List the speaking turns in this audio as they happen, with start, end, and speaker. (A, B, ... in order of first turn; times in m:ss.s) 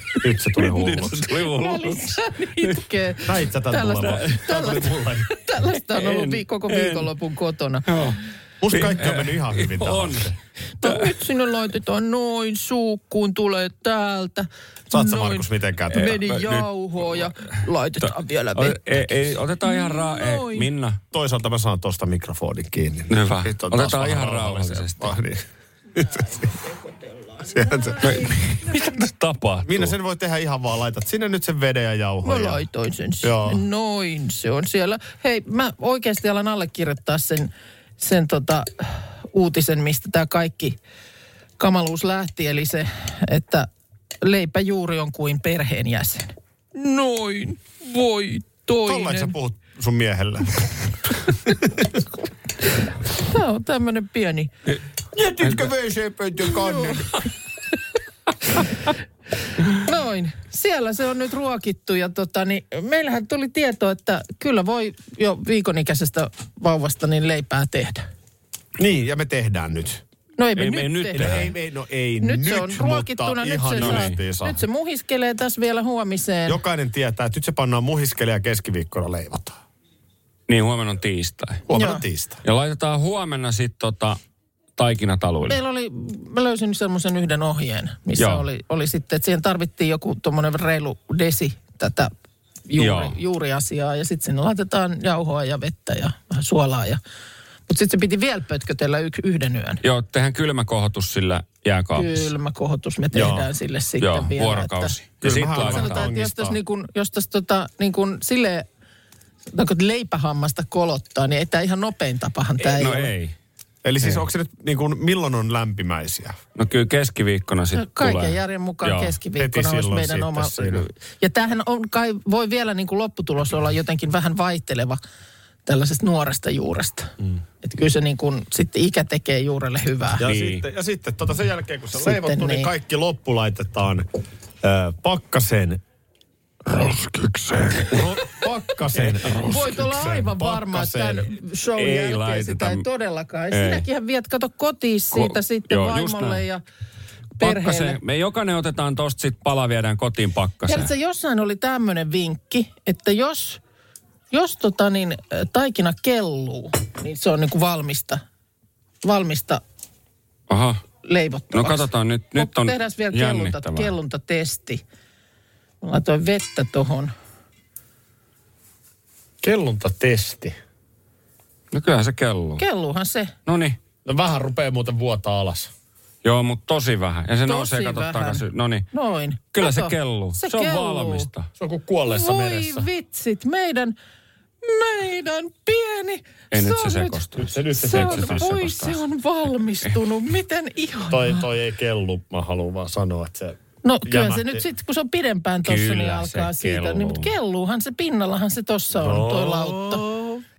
0:00.2-0:01.3 A
0:00.6-0:02.8 B
0:01.5-0:07.9 C
0:03.3-0:05.3 A
0:05.9-0:07.1 B
0:07.9-0:08.2 B
0:08.6-0:10.4 A
0:08.7-0:11.1 B
0:10.8-0:20.7 C
0:14.9-0:16.2 A
0:16.0-0:21.0 B
0:21.1-0:25.4 A
0:23.1-0:25.1 B
0:26.0-0:26.5 A
0:27.4-0:28.1 A
0:27.8-0:28.3 C
0:28.0-0:29.9 B
0:29.6-0:32.6 A
0:32.2-0:40.8 C
0:33.2-0:33.6 A
0:41.6-0:43.7 C
0:44.2-0:49.3 C
0:48.8-0:51.9 A
0:53.1-0:54.5 C
0:55.1-0:57.2 A
0:55.4-0:55.7 B
0:56.7-0:57.0 C
0:59.7-1:08.0 C
1:08.8-1:10.0 A
1:10.4-1:11.5 C
1:10.6-1:11.5 B
1:11.2-1:14.6 A
1:12.2-1:16.6 C
1:13.8-1:14.2 B
1:16.5-1:19.6 A
1:20.5-1:21.6 B
1:21.7-1:22.4 A
1:21.7-1:22.0 C
1:22.4-1:24.2 B
1:24.8-1:25.6 B
1:25.5-1:32.1 C
1:28.2-1:28.4 B
1:32.7-1:37.0 C
1:32.8-1:33.2 B
1:37.7-1:39.8 C
1:39.8-1:42.3 B
1:42.0-1:45.0 C
1:43.1-1:43.5 A
1:44.0-1:46.1 B
1:45.2-1:46.6 A
1:45.6-1:48.7 C
1:49.5-1:53.1 C
1:52.6-1:53.4 B
1:53.8-1:56.4 A
1:56.6-1:59.2 B
1:57.7-2:05.0 C
1:59.4-2:00.9 A
2:05.7-2:10.2 C
2:10.2-2:14.1 A
2:10.2-2:10.6 B
2:12.0-2:12.7 C
2:14.6-2:15.8 A
2:16.7-2:21.3 A
2:19.0-2:19.5 B
2:19.4-2:26.6 C
2:21.8-2:22.8 B
2:23.5-2:23.8 B
2:25.1-2:26.4 B
2:27.4-2:28.0 C
2:27.4-2:30.9 B
2:30.7-2:33.6 C
2:34.3-2:38.2 C
2:39.0-2:39.6 C
2:40.5-2:40.8 B
2:41.0-2:44.8 C
2:41.5-2:43.9 B
2:45.8-2:47.1 C
2:49.4-2:50.6 A
2:51.7-2:52.6 B
2:52.6-2:53.4 C
2:53.5-2:53.8 B
2:54.0-2:55.7 A
2:56.2-2:58.9 B
2:57.4-3:01.3 C
2:59.6-3:01.5 B
3:01.6-3:02.8 A
3:02.1-3:04.0 C
3:04.6-3:11.4 C
3:06.5-3:09.0 B
3:07.3-3:08.6 A
3:11.1-3:14.6 A
3:13.8-3:20.2 C
3:15.6-3:17.3 B
3:19.0-3:20.2 A